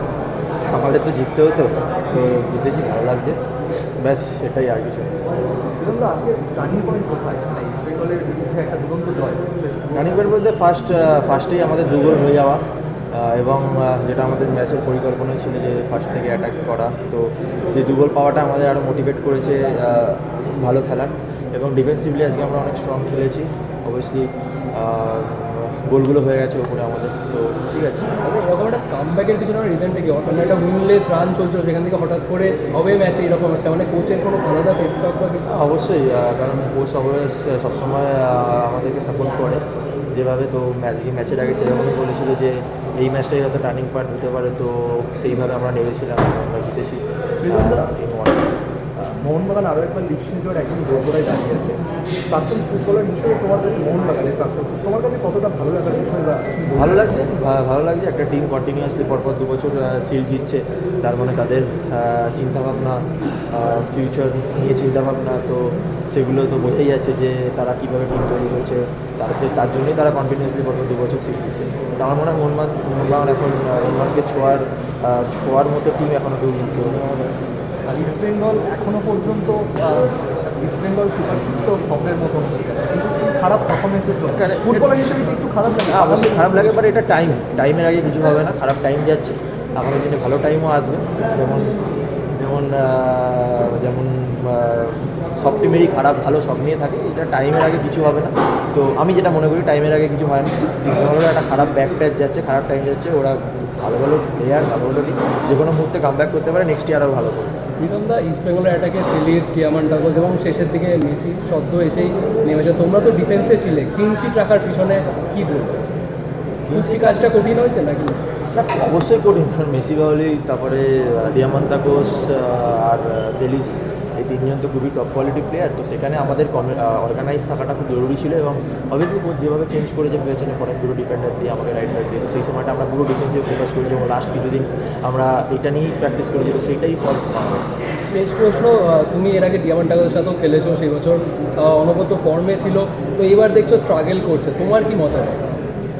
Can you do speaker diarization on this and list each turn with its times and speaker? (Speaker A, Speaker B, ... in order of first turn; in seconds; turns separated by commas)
Speaker A: 0.7-3.4, Speaker A: 4.0-5.4, Speaker B: 5.8-10.2, Speaker A: 9.9-12.6, Speaker A: 13.1-28.1, Speaker C: 28.2-35.4, Speaker A: 35.5-48.5, Speaker B: 47.4-47.9, Speaker B: 49.0-57.2, Speaker A: 56.8-77.0, Speaker B: 77.9-86.8, Speaker A: 84.3-85.0, Speaker A: 85.9-91.8, Speaker A: 92.4-107.5, Speaker C: 107.8-115.8, Speaker A: 116.7-117.3, Speaker C: 116.7-118.2, Speaker A: 118.5-137.7, Speaker C: 138.1-145.4